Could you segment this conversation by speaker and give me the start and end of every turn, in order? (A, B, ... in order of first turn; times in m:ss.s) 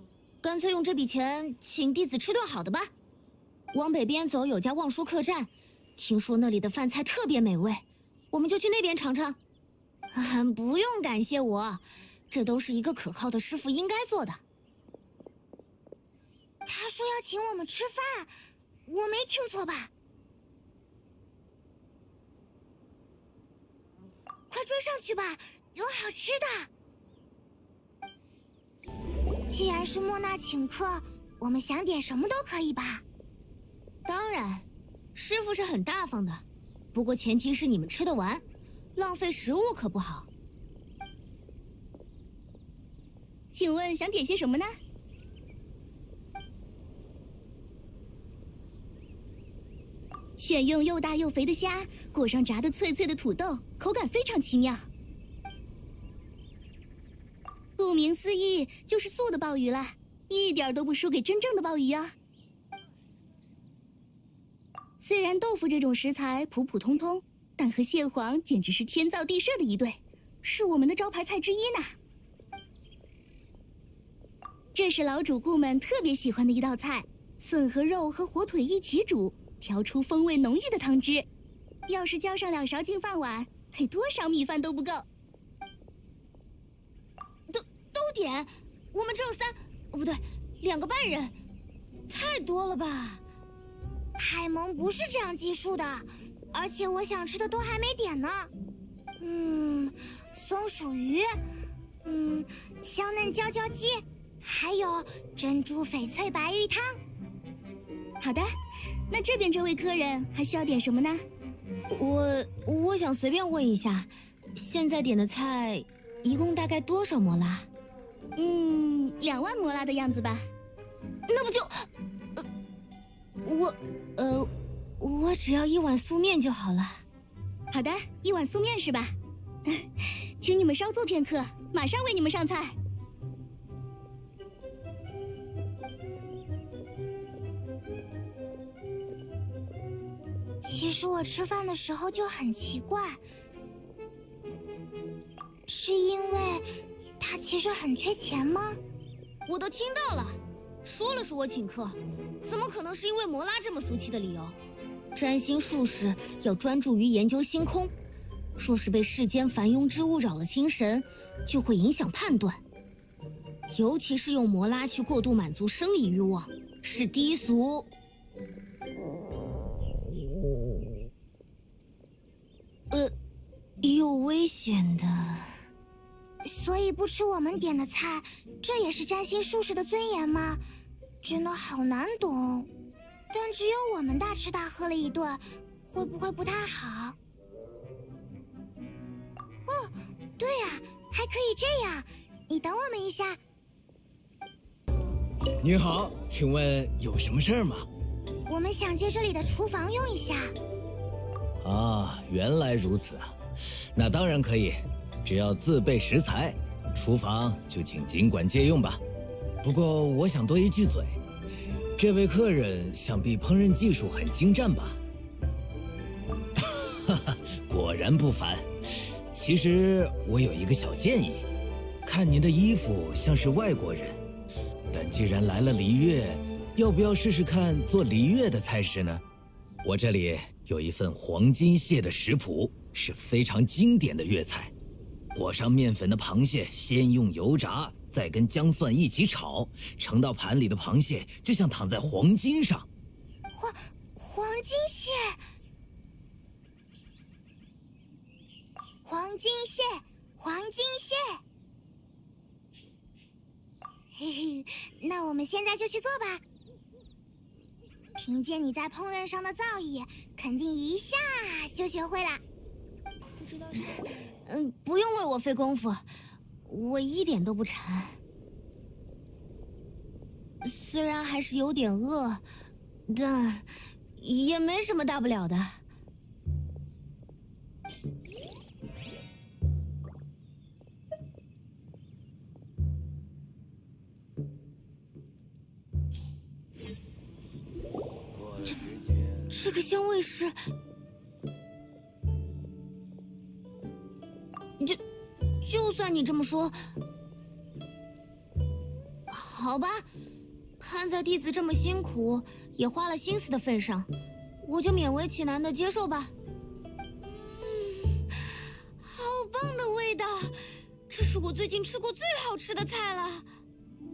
0:00.4-0:02.9 A
0:03.7-0:09.4 A
0:10.1-0:14.4 A
0:16.7-0:18.3 B
0:18.9-0:19.9 B
0:24.5-0:26.7 B
0:29.5-0:33.0 B
0:34.1-0:38.4 A
0:39.0-0:40.3 A
0:43.5-0:44.8 C
0:50.4-0:54.9 C
0:57.8-1:02.2 C
1:05.0-1:12.0 C
1:14.8-1:21.3 C
1:21.9-1:25.0 C
1:27.5-1:31.3 A
1:32.1-1:33.2 A
1:34.2-1:38.5 B
1:39.2-1:41.3 B
1:42.0-1:47.0 B
1:48.2-1:48.6 C
1:49.1-1:51.3 C
1:51.9-1:57.7 A
1:58.4-2:00.5 C
2:01.3-2:01.6 A
2:03.4-2:07.0 A
2:07.7-2:12.8 C
2:20.6-2:23.2 B
2:25.7-2:26.6 B
2:27.2-2:28.8 B
2:29.5-2:34.6 A
2:35.1-2:37.9 A
2:38.6-2:42.6 A
2:43.7-2:47.9 A
2:53.8-2:55.5 A
2:56.4-3:00.6 B
3:01.2-3:02.7 B
3:03.3-3:07.2 B
3:09.7-3:13.4 B
3:15.6-3:17.9 D
3:18.5-3:20.5 B
3:21.6-3:23.3 D
3:24.0-3:29.0 D
3:29.6-3:31.2 D
3:32.0-3:35.0 D
3:36.6-3:38.7 D
3:39.3-3:41.4 D
3:42.0-3:44.2 D
3:44.9-3:49.2 D
3:49.8-3:54.7 D
3:55.3-4:02.9 D
4:03.5-4:05.4 B
4:09.0-4:11.4 B
4:14.2-4:16.4 B
4:18.2-4:22.4 B
4:23.4-4:26.0 A
4:26.7-4:28.2 A
4:30.6-4:32.4 A
4:33.1-4:33.7 A
4:34.2-4:35.8 A
4:49.5-4:50.6 A
4:55.6-4:56.8 A
4:59.3-5:00.0 A
5:00.8-5:04.1 A
5:04.6-5:06.3 A
5:07.3-5:08.2 A
5:09.0-5:10.6 A
5:11.1-5:13.5 A